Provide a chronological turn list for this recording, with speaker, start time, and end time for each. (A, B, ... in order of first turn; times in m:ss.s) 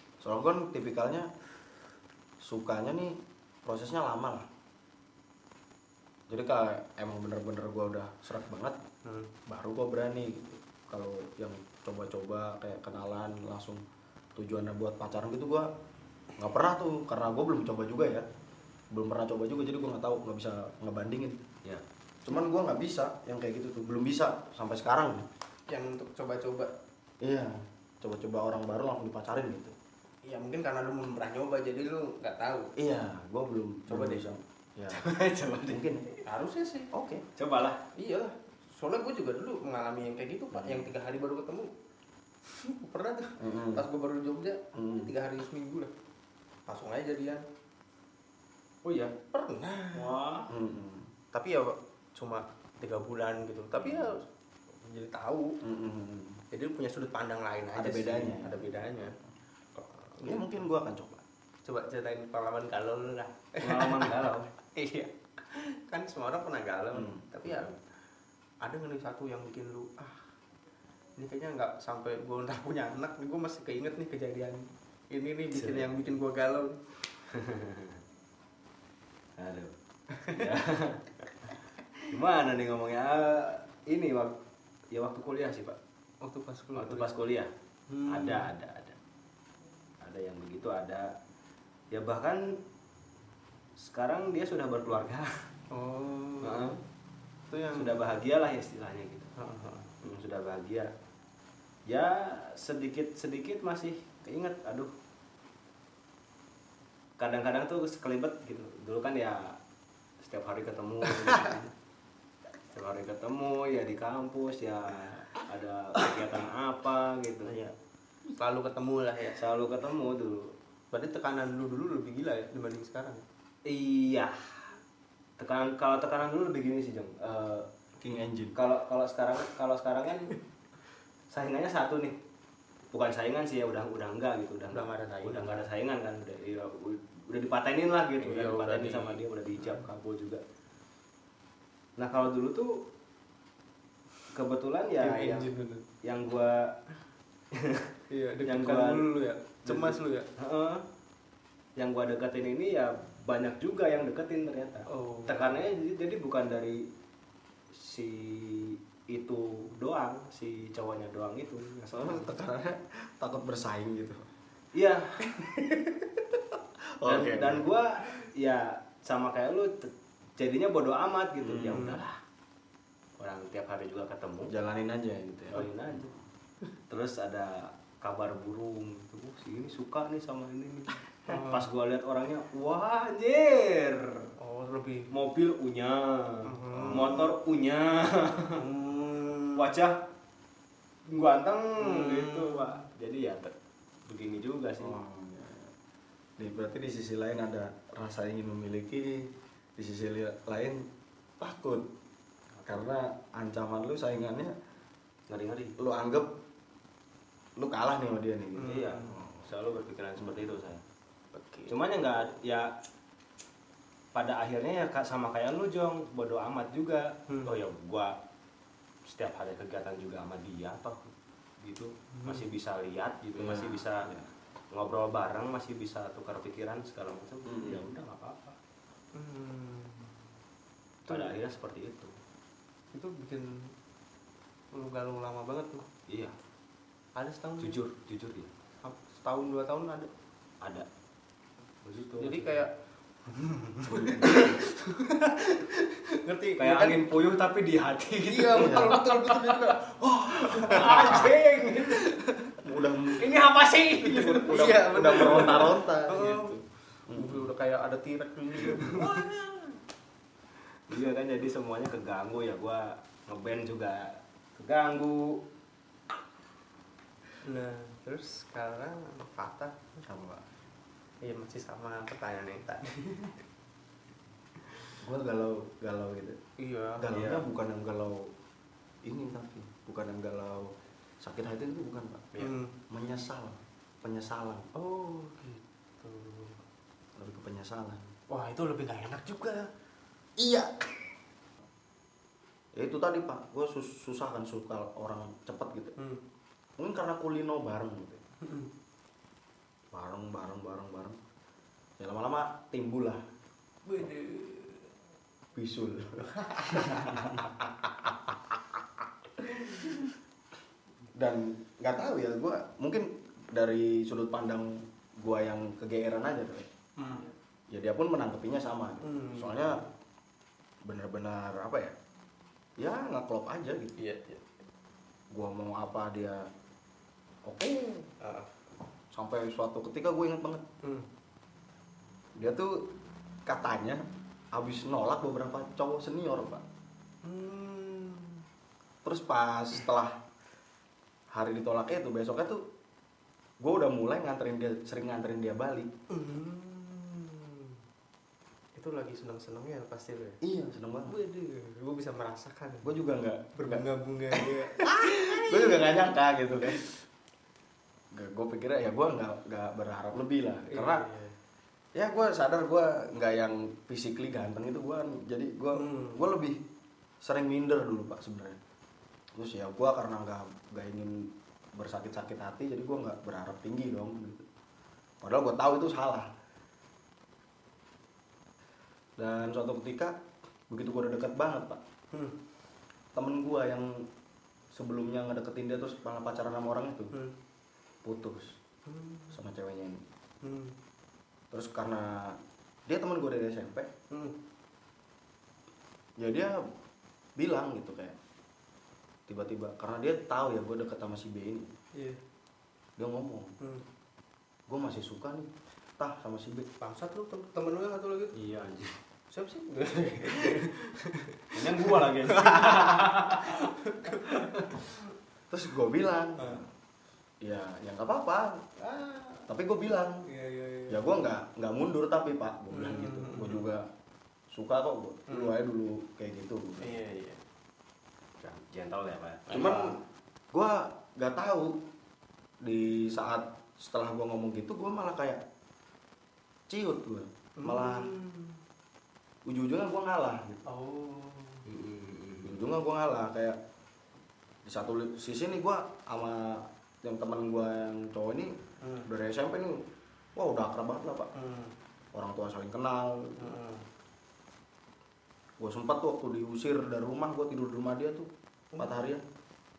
0:00.2-0:01.3 A
0:02.4-0:04.5 A
0:06.3-0:08.8 A
0:09.0-0:09.3 B
0:09.5-0:13.8 A
0:14.4-0:15.7 A
0:16.4-0:18.2 A
0:18.9-0:21.4 A
0:22.2-0:25.2 A
0:25.7-0:26.7 B
0:27.2-0:29.7 A
0:30.2-0:32.7 B
0:32.8-0:35.0 A
0:33.9-0:34.2 B
0:34.9-0:35.8 C
0:35.7-0:36.1 A
0:36.1-0:36.9 B
0:36.9-0:37.2 A
0:37.4-0:37.8 C
0:37.9-0:41.7 B
0:40.5-0:40.9 A
0:42.5-0:45.9 B
0:43.4-0:43.8 A
0:44.7-0:45.1 A
0:46.7-0:47.4 B
0:48.8-0:49.1 C
0:49.1-0:50.2 B
0:49.9-0:50.5 C
0:50.5-0:51.1 A
0:51.3-0:55.6 B
0:55.6-0:56.4 A
0:56.5-0:59.2 B
0:57.8-0:58.7 A
0:59.7-1:00.6 B
1:00.2-1:01.2 A
1:01.6-1:07.7 B
1:03.6-1:04.5 C
1:06.9-1:07.3 A
1:08.6-1:10.2 B
1:11.2-1:16.8 B
1:15.5-1:16.0 C
1:17.3-1:18.0 C
1:19.4-1:19.7 C
1:20.1-1:20.5 B
1:20.3-1:21.1 C
1:22.0-1:24.4 C
1:24.9-1:25.8 C
1:26.2-1:27.1 B
1:26.7-1:27.5 C
1:27.9-1:28.5 B
1:28.1-1:29.0 C
1:30.0-1:31.1 C
1:31.9-1:32.6 C
1:33.8-1:35.4 C
1:35.7-1:36.7 B
1:36.4-1:36.8 C
1:37.5-1:38.0 B
1:37.7-1:39.3 C
1:39.4-1:39.9 B
1:40.0-1:40.9 C
1:41.9-1:44.9 C
1:47.2-1:49.6 C
1:50.2-1:51.7 C
1:52.7-1:57.6 C
1:58.4-1:59.4 B
1:59.4-2:00.5 C
2:00.9-2:03.2 B
2:03.6-2:04.7 C
2:05.4-2:07.7 C
2:08.0-2:08.6 A
2:08.5-2:10.4 C
2:11.3-2:12.2 C
2:12.9-2:20.4 C
2:14.7-2:15.7 B
2:18.2-2:19.8 B
2:22.0-2:22.8 C
2:24.3-2:25.5 C
2:25.0-2:25.8 B
2:26.0-2:26.8 C
2:27.5-2:27.9 C
2:28.1-2:30.3 B
2:28.4-2:29.1 C
2:29.6-2:30.8 C
2:31.8-2:36.9 C
2:34.9-2:35.6 B
2:37.7-2:42.2 C
2:41.9-2:44.2 A
2:44.7-2:45.2 C
2:45.2-2:47.7 A
2:47.0-2:52.2 C
2:51.4-2:52.0 A
2:51.7-2:52.0 B
2:53.2-2:54.5 C
2:54.5-2:56.1 A
2:55.5-2:56.1 C
2:56.9-3:04.3 C
3:01.2-3:01.7 B
3:04.4-3:05.1 B
3:05.1-3:08.6 C
3:06.4-3:07.3 B
3:06.7-3:07.2 A
3:08.5-3:09.7 B
3:09.6-3:10.0 C
3:11.1-3:13.5 C
3:11.8-3:12.8 B
3:14.1-3:15.0 C
3:14.8-3:15.7 A
3:16.4-3:20.9 A
3:21.4-3:21.9 A
3:22.6-3:22.8 C
3:22.7-3:24.5 A
3:25.3-3:25.7 C
3:25.8-3:26.3 A
3:27.6-3:29.4 A
3:28.5-3:29.2 B
3:28.6-3:30.8 C
3:30.2-3:30.4 A
3:31.3-3:32.3 B
3:31.7-3:32.7 C
3:34.1-3:38.1 C
3:37.3-3:37.6 B
3:39.0-3:41.1 C
3:41.6-3:44.2 C
3:42.1-3:42.4 B
3:43.4-3:44.2 A
3:44.7-3:48.6 C
3:47.4-3:47.8 A
3:49.1-3:50.2 B
3:51.1-3:51.3 B
3:51.1-3:52.1 C
3:52.9-3:53.7 B
3:54.7-3:55.8 B
3:56.1-3:56.3 C
3:57.2-3:57.8 B
3:57.6-3:58.5 C
3:58.8-4:00.1 B
4:00.6-4:00.9 C
4:01.8-4:02.6 C
4:02.2-4:02.7 B
4:03.2-4:07.2 B
4:03.9-4:04.4 A
4:04.2-4:04.5 C
4:06.6-4:09.7 C
4:08.2-4:12.5 B
4:08.5-4:09.0 A
4:10.0-4:11.3 A
4:10.5-4:12.2 C
4:12.6-4:13.3 A
4:13.1-4:15.6 C
4:14.0-4:17.5 A
4:14.2-4:16.6 B
4:17.1-4:19.3 B
4:18.7-4:19.8 C
4:20.9-4:25.4 C
4:27.4-4:30.0 B
4:30.0-4:30.4 A
4:31.2-4:33.4 B
4:35.0-4:36.4 A
4:36.6-4:37.2 B
4:37.0-4:38.3 A
4:37.1-4:37.4 C
4:39.0-4:42.3 A
4:42.4-4:42.7 B
4:42.9-4:44.7 A
4:44.7-4:46.6 B
4:47.2-4:48.1 A
4:48.3-4:49.7 B
4:50.4-4:50.9 A
4:52.7-4:56.0 A
4:56.8-4:58.2 A
4:58.4-4:58.7 B
4:59.9-5:01.2 A
5:02.0-5:03.2 A
5:03.8-5:04.9 B
5:05.5-5:08.6 A
5:06.5-5:07.3 B
5:09.4-5:10.1 A
5:11.1-5:16.7 A
5:17.0-5:17.3 B
5:17.7-5:19.8 A
5:19.0-5:19.9 B
5:20.8-5:22.0 A
5:22.8-5:24.0 A
5:24.0-5:24.4 B
5:25.3-5:26.5 A
5:27.4-5:28.1 A
5:28.2-5:28.5 B
5:29.1-5:30.6 A
5:32.4-5:32.9 A
5:33.4-5:34.0 A
5:34.5-5:36.6 A
5:37.2-5:38.4 B
5:39.0-5:40.2 A
5:41.3-5:42.6 A
5:43.6-5:45.9 A
5:46.1-5:47.8 B
5:48.8-5:50.4 B
5:50.4-5:51.1 A
5:51.0-5:52.9 B
5:52.8-5:56.9 A
5:53.6-5:56.0 B
5:58.1-6:01.0 A
6:00.7-6:01.3 B
6:01.9-6:06.6 A
6:05.7-6:06.3 B
6:07.2-6:08.6 A
6:09.3-6:14.4 A
6:15.2-6:16.3 A
6:19.2-6:21.8 A
6:23.1-6:24.1 A
6:24.7-6:27.1 A
6:28.0-6:28.6 A
6:28.8-6:29.4 B
6:29.3-6:30.0 A
6:30.4-6:30.7 B
6:31.5-6:33.9 A
6:34.1-6:34.4 B
6:36.2-6:36.6 A
6:37.4-6:38.2 A
6:39.3-6:41.7 A
6:43.0-6:43.5 A
6:44.7-6:46.7 A
6:46.8-6:48.4 B
6:48.3-6:49.0 C
6:49.3-6:55.0 B
6:51.5-6:53.7 C
6:55.5-6:56.6 A
6:56.4-6:56.6 B
6:57.4-6:58.7 A
6:58.8-6:59.5 B
6:59.5-7:00.2 A
7:00.2-7:01.1 B
7:00.9-7:03.9 A
7:02.7-7:03.7 B
7:04.5-7:06.9 A
7:05.3-7:05.6 B
7:06.8-7:07.4 B
7:08.4-7:09.5 C
7:09.5-7:10.0 B
7:09.5-7:10.0 A
7:10.5-7:11.8 A
7:12.6-7:15.4 A
7:16.7-7:18.1 A
7:17.6-7:18.6 B
7:19.4-7:20.6 A
7:20.6-7:21.6 B
7:21.6-7:22.6 C
7:22.4-7:23.6 A
7:24.6-7:31.3 A
7:28.8-7:29.1 B
7:31.3-7:31.7 B
7:32.1-7:33.4 A
7:33.4-7:33.8 B
7:35.6-7:39.2 A
7:38.7-7:39.0 B